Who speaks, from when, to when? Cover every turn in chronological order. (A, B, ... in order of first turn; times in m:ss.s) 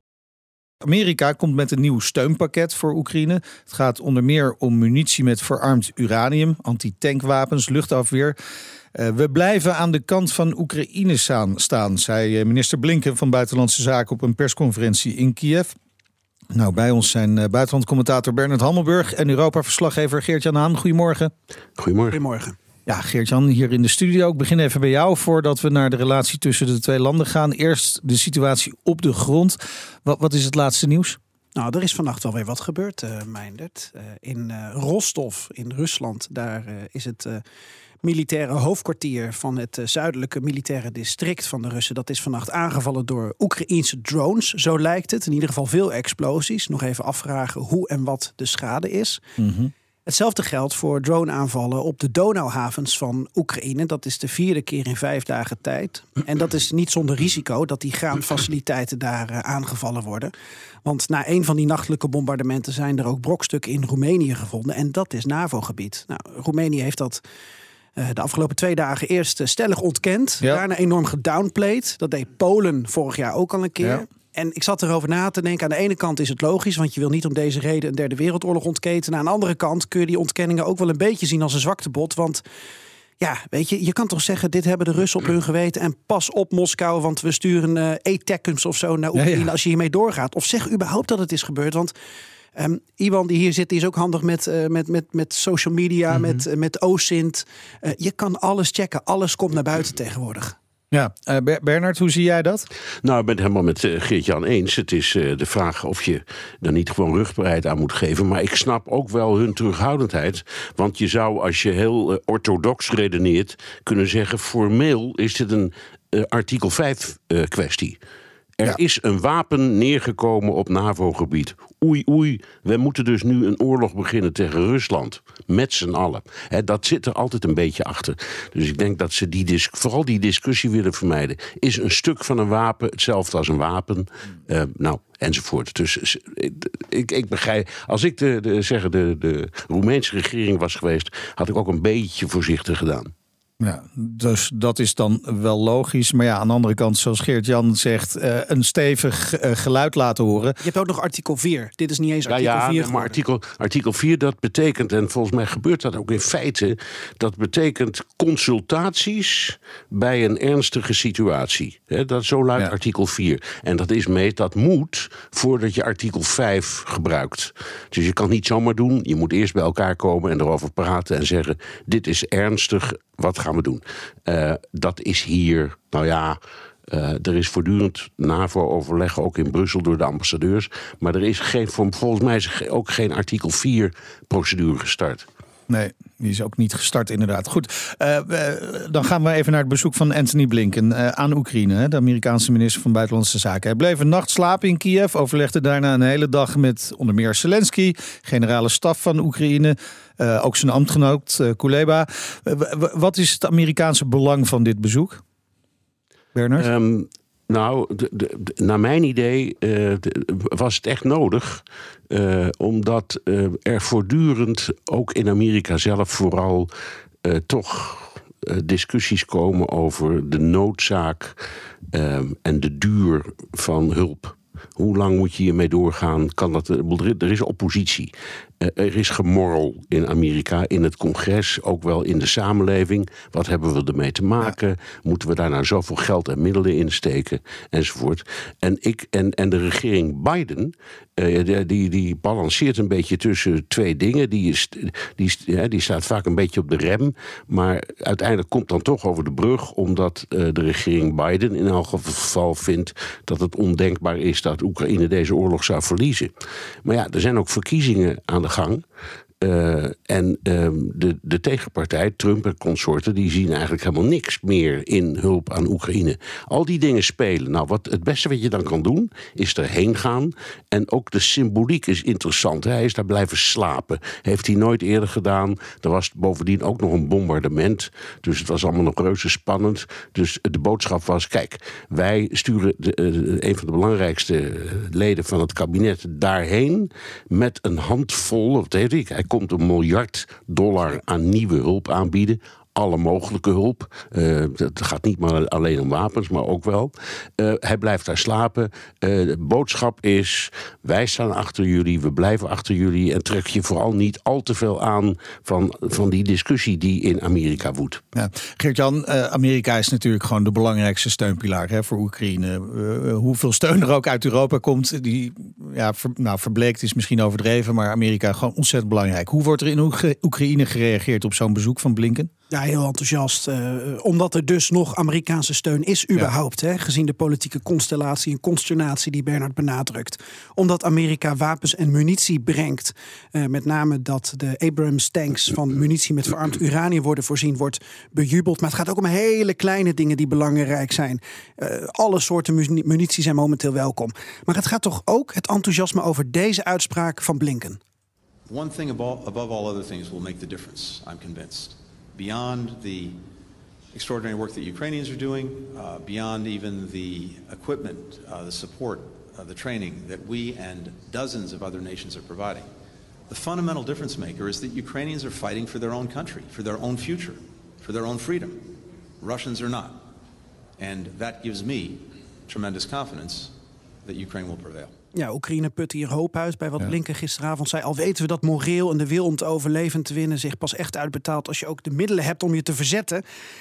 0:00.8-0:08.4 A
0:08.9-0:15.7 A
0:16.5-0:21.3 A
0:21.8-0:22.2 B
0:22.1-0:22.6 C
0:22.9-0:31.2 A
0:31.5-0:37.4 C
0:38.0-0:49.2 C
0:49.4-0:49.7 A
0:50.0-1:00.3 C
1:00.8-1:07.2 C
1:08.0-1:22.4 C
1:23.2-1:31.9 C
1:29.1-1:29.5 A
1:32.5-1:40.6 C
1:40.9-1:42.7 A
1:43.0-1:58.0 B
1:58.6-2:23.1 B
2:23.6-2:30.6 A
2:30.6-2:33.2 C
2:32.3-3:05.2 B
3:05.7-3:25.2 A
3:26.3-3:26.7 A
3:26.6-3:36.7 B
3:37.2-3:41.4 B
3:41.9-4:16.3 B
4:16.8-4:18.8 B
4:19.4-5:08.0 B
5:08.1-5:22.3 A
5:22.5-5:47.8 C
5:48.5-5:53.2 D
5:53.9-6:02.6 D
6:03.3-6:08.7 D
6:09.2-6:10.0 D
6:10.8-6:13.5 D
6:14.0-6:14.9 D
6:15.1-6:23.2 C